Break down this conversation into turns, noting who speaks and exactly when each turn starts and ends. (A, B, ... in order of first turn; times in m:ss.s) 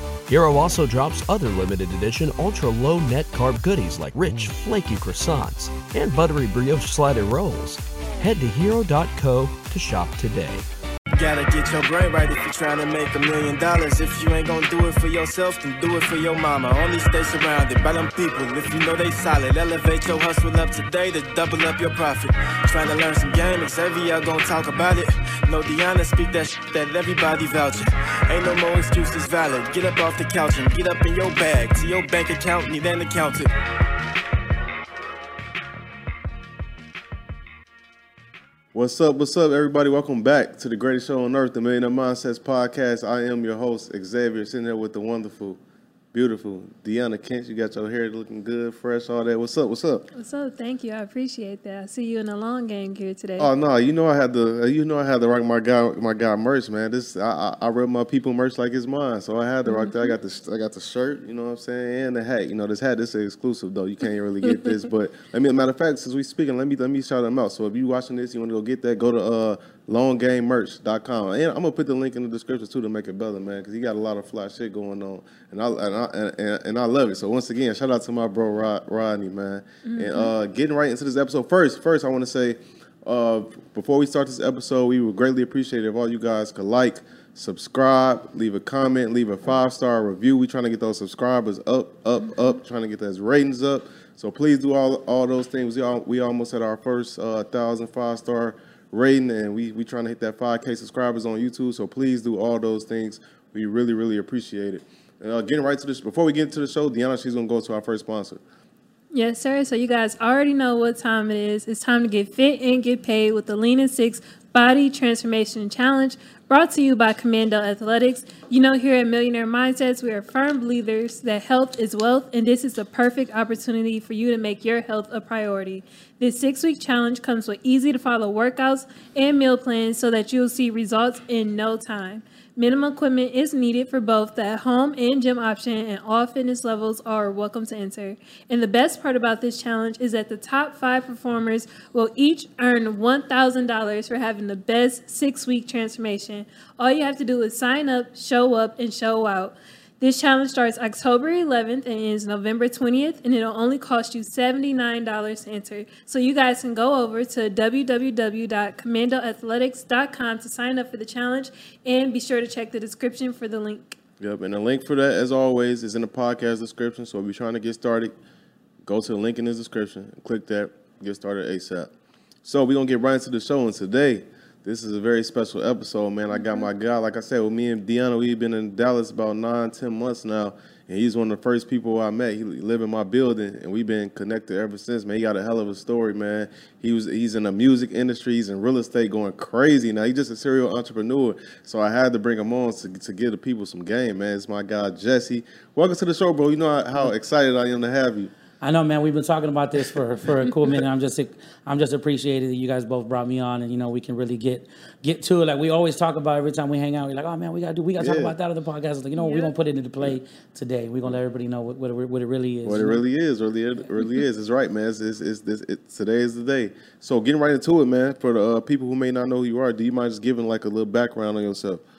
0:00.3-0:10.6 A
0:11.2-0:33.5 B
0:38.7-0:45.6 C
0:46.1-0:50.1 C
0:50.2-0:53.5 D
0:53.4-1:48.4 C
0:59.7-0:59.9 D
1:19.8-1:20.3 D
1:49.1-2:44.0 D
2:44.2-2:48.1 C
2:48.8-2:51.9 C
2:52.4-3:18.3 C
3:18.6-3:33.0 E
3:28.0-3:28.3 C
3:29.2-3:29.5 D
3:32.6-3:41.8 C